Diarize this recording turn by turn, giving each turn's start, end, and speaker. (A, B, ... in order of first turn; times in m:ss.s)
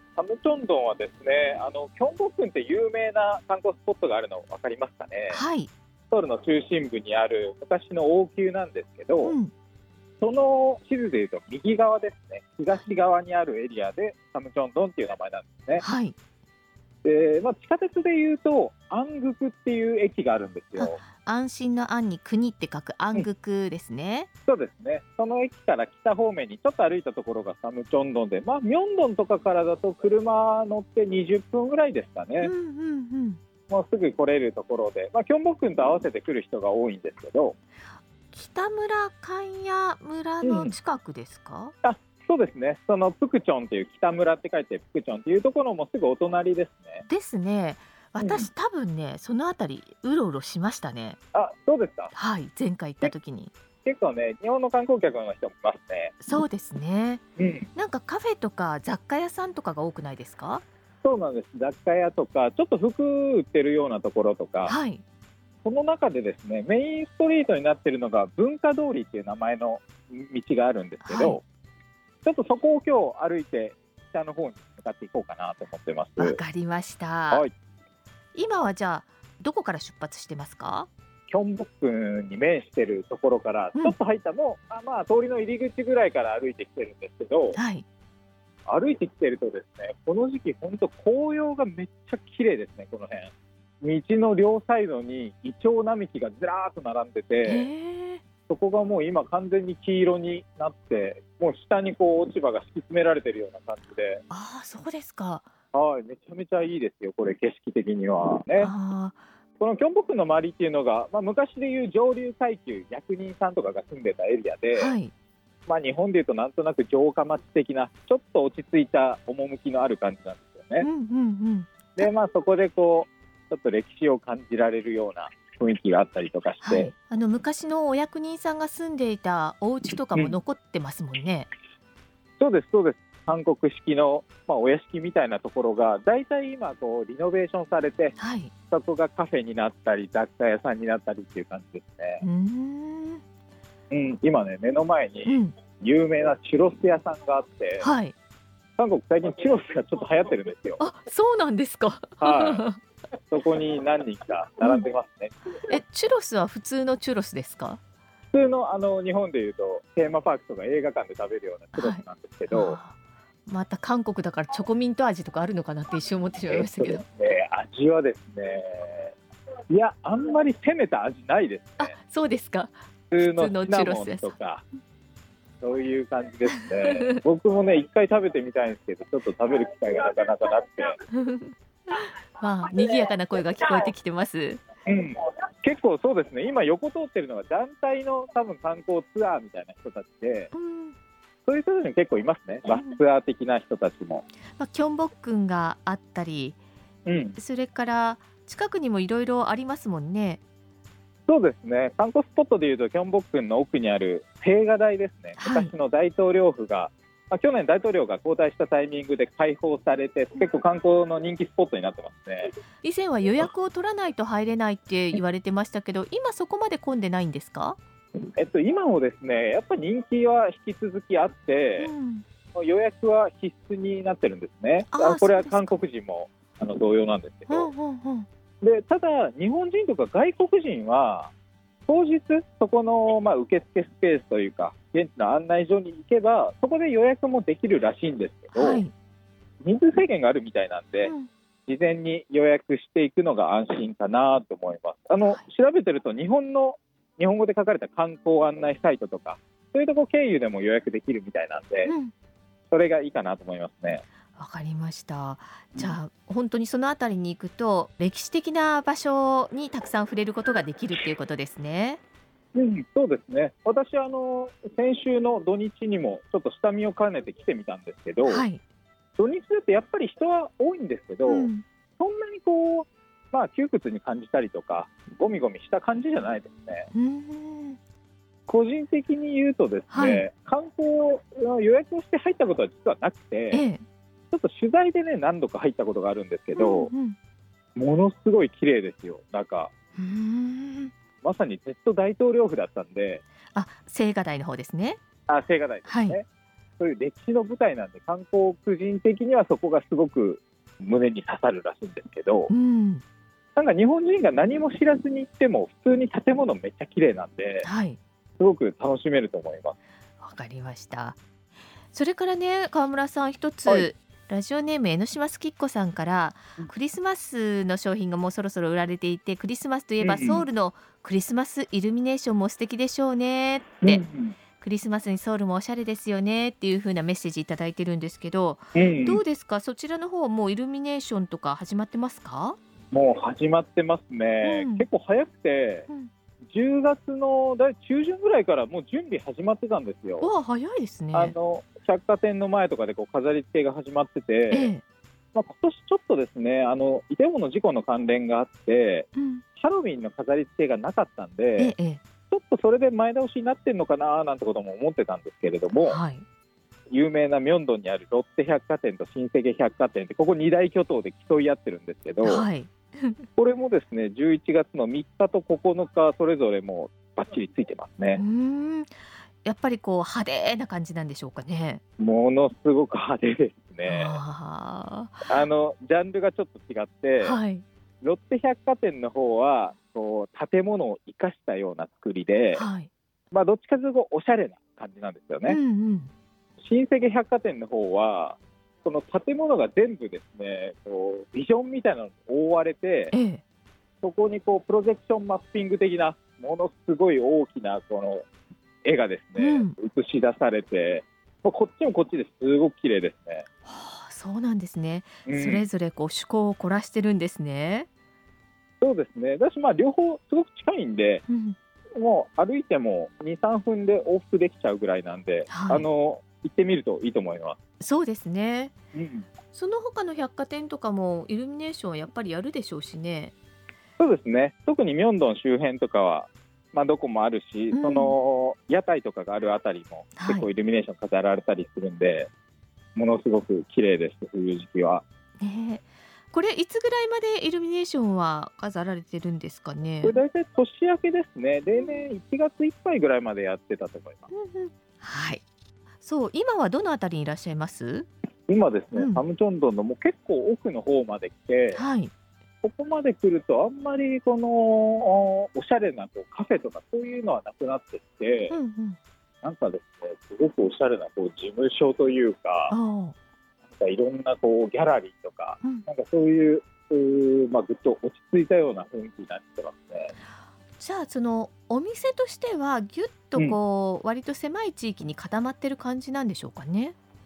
0:00.2-0:05.4 A
0:05.3-0:05.7 B
0:06.1-0:09.4 A
0:09.2-0:09.5 B
0:10.2-0:15.8 A
0:15.8-0:16.2 B
0:17.0-0:21.0 A
0:20.8-0:24.3 B
0:24.5-0:32.5 A
0:32.4-0:33.4 B
0:33.7-0:37.6 A
0:38.3-0:41.7 B
0:40.4-0:40.7 A
0:41.8-0:47.0 A
0:47.1-0:51.2 B
0:48.2-0:48.5 A
0:51.3-0:52.1 A
0:52.1-0:53.5 B
0:53.8-0:56.2 A
0:56.2-0:57.2 B
0:57.4-0:57.7 A
0:57.8-1:00.6 B
1:01.0-1:04.8 A
1:04.7-1:05.0 B
1:05.6-1:11.4 A
1:11.0-1:11.4 B
1:12.2-1:16.4 A
1:16.2-1:17.4 B
1:18.3-1:20.9 B
1:21.3-1:27.6 A
1:27.6-1:27.8 B
1:28.7-1:37.7 A
1:37.4-1:38.2 B
1:38.5-1:44.2 A
1:44.3-1:45.5 B
1:45.7-1:48.7 A
1:48.6-1:49.2 B
1:49.6-1:55.0 A
1:54.7-1:55.1 B
1:55.7-2:00.9 A
2:00.8-2:02.1 B
2:02.0-2:06.9 A
2:06.6-2:11.5 B
2:12.4-2:18.2 A
2:18.2-2:18.5 B
2:18.7-2:22.2 A
2:22.2-2:23.2 B
2:23.9-2:27.9 A
2:25.2-2:25.6 B
2:27.8-2:28.2 B
2:28.8-2:30.8 A
2:30.8-2:32.8 B
2:32.2-2:32.6 A
2:33.3-2:35.4 A
2:35.7-2:37.8 B
2:38.3-2:42.8 A
2:41.8-2:43.0 B
2:43.5-2:47.0 B
2:46.5-2:49.2 A
2:49.7-2:51.9 A
2:51.8-2:54.4 B
2:53.1-2:54.6 A
2:55.6-3:01.0 A
2:56.5-2:57.2 B
3:01.1-3:04.6 B
3:04.9-3:10.5 A
3:10.5-3:11.0 B
3:11.5-3:14.3 A
3:12.7-3:13.0 B
3:14.6-3:16.6 B
3:17.1-3:17.4 A
3:17.4-3:20.4 B
3:21.3-3:32.5 A
3:25.4-3:25.7 B
3:32.8-3:37.8 B
3:38.2-3:41.9 A
3:41.8-3:42.2 B
3:42.6-3:47.7 A
3:44.9-3:45.8 B
3:47.5-3:48.3 B
3:48.6-3:51.3 A
3:51.9-3:58.8 A
3:58.5-3:58.9 B
3:59.6-4:01.1 A
4:01.0-4:01.3 B
4:01.7-4:11.9 A
4:11.8-4:12.1 B
4:12.7-4:14.0 A
4:14.4-4:22.0 B
4:22.6-4:28.4 A
4:28.2-4:28.6 B
4:29.2-4:36.9 A
4:31.2-4:31.6 B
4:36.9-4:37.8 B
4:38.5-4:43.6 A
4:39.9-4:40.3 B
4:43.5-4:43.8 B
4:44.3-4:46.9 A
4:46.6-4:47.2 B
4:47.8-4:49.7 A
4:50.0-4:50.9 B
4:51.2-4:53.2 A
4:53.5-4:55.0 B
4:55.3-4:56.2 A
4:55.9-4:56.2 B
4:56.8-5:02.5 A
5:02.5-5:03.0 B
5:03.6-5:07.7 A
5:07.6-5:08.0 B
5:08.4-5:09.8 A
5:10.2-5:11.2 B
5:11.9-5:24.0 B
5:20.0-5:20.5 A
5:23.8-5:24.4 A
5:24.6-5:32.6 B
5:28.8-5:29.2 A
5:32.9-5:35.9 A
5:34.4-5:34.9 B
5:36.5-5:40.3 A
5:40.2-5:41.4 B
5:41.1-5:44.7 A
5:44.5-5:44.8 B
5:45.3-5:51.7 A
5:49.2-5:49.4 B
5:51.6-5:52.0 B
5:52.3-5:56.0 A
5:55.8-5:56.2 B
5:56.9-6:02.4 A
6:02.2-6:03.2 B
6:03.4-6:08.2 A
6:08.1-6:11.8 B
6:12.0-6:14.2 A
6:13.9-6:15.3 B
6:15.3-6:17.4 A
6:17.2-6:17.6 B
6:18.0-6:22.7 A
6:22.6-6:22.9 B
6:23.3-6:25.6 A
6:25.5-6:26.1 B
6:26.6-6:33.1 A
6:33.1-6:33.4 B
6:34.0-6:38.3 A
6:38.8-6:43.5 A
6:39.4-6:39.8 B
6:43.7-6:47.9 B
6:45.3-6:45.7 A
6:48.8-6:51.2 A
6:51.3-6:51.6 B
6:52.0-6:57.6 A
6:55.5-6:55.9 B
6:57.8-6:58.7 B
6:59.0-6:59.3 A
6:59.5-7:03.4 B
7:04.0-7:12.3 A
7:07.7-7:08.2 B
7:10.2-7:10.5 B
7:13.0-7:15.0 A
7:15.4-7:20.2 B
7:20.0-7:24.3 A
7:21.8-7:22.0 B
7:24.3-7:25.4 B
7:26.0-7:28.1 B
7:28.5-7:31.8 A
7:28.9-7:29.2 B
7:31.8-7:32.1 B
7:32.6-7:38.6 A
7:38.5-7:39.0 B
7:39.4-7:42.7 A
7:42.7-7:43.2 B
7:43.7-7:50.1 A
7:50.8-7:57.0 B